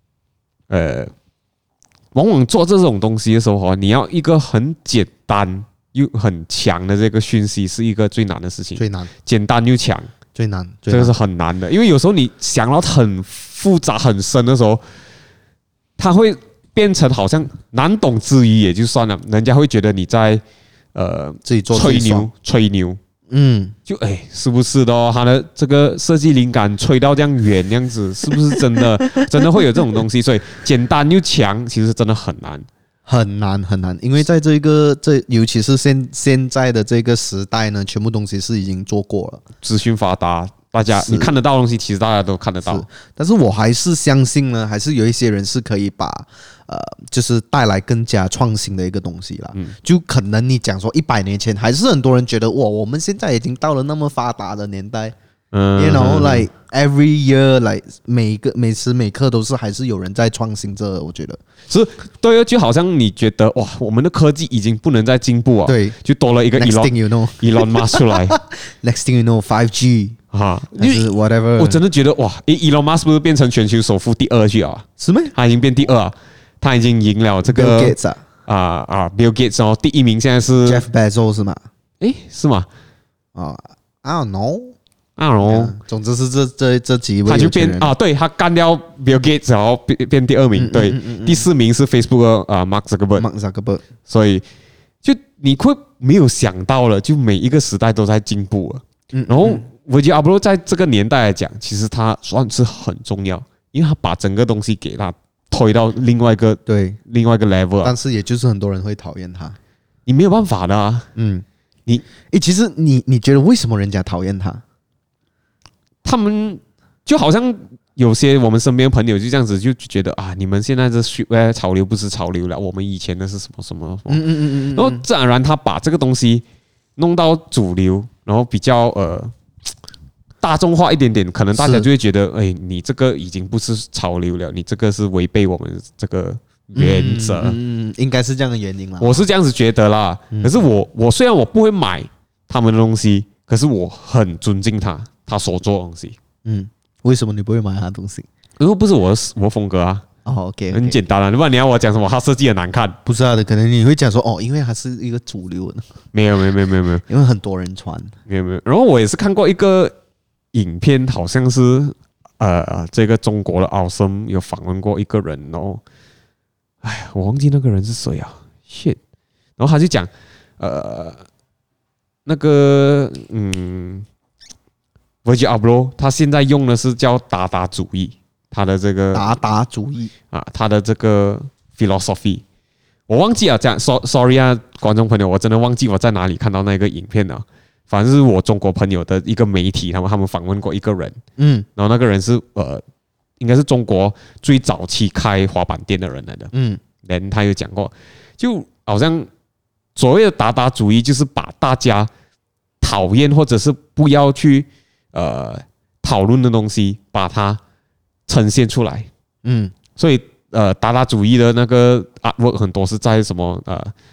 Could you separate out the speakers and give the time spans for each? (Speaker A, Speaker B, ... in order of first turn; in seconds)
Speaker A: 0.7-1.1, 2.1-10.1, 10.9-14.8, 16.0-20.4, 20.9-23.0, 23.9-32.7, 39.6-42.9, 55.5-56.5, 61.7-68.4, 70.3-80.8, 82.0-82.7, 85.2-85.7, 87.3-93.3, 94.1-94.4, 95.0-108.0, 110.1-111.1, 116.0-126.4, 127.0-129.3, 130.4-137.6, 139.0-146.2, 148.6-150.1, 150.7-153.0, 156.1-157.0, 158.3-159.9, 160.5-165.8, 166.8-169.0, 169.6-171.2, 172.3-174.1, 175.2-179.3, 180.3-182.4, 183.1-191.2, 191.8-192.8, 193.4-196.5, 197.0-199.3, 200.0-202.1, 202.8-207.6, 208.3-209.1, 210.0-213.9
Speaker B: 8.8-9.1, 10.3-11.1, 21.4-22.3, 23.3-23.8, 28.6-28.9, 33.1-39.4, 40.9-41.3, 42.6-55.1, 55.8-61.4, 65.7-66.0, 66.6-70.2, 70.8-71.8, 75.0-75.3, 77.5-78.2, 80.7-81.6, 83.3-84.8, 85.4-87.9, 90.6-91.5, 93.2-93.8, 99.1-99.6, 106.7-107.0, 107.8-109.6, 111.2-111.5, 112.3-114.6, 124.1-125.0, 131.6-131.9, 136.8-139.2, 146.4-148.3, 150.2-151.0, 153.1-155.9, 157.1-158.1, 179.1-180.1, 191.4-191.7, 196.5-196.8, 209.4-209.7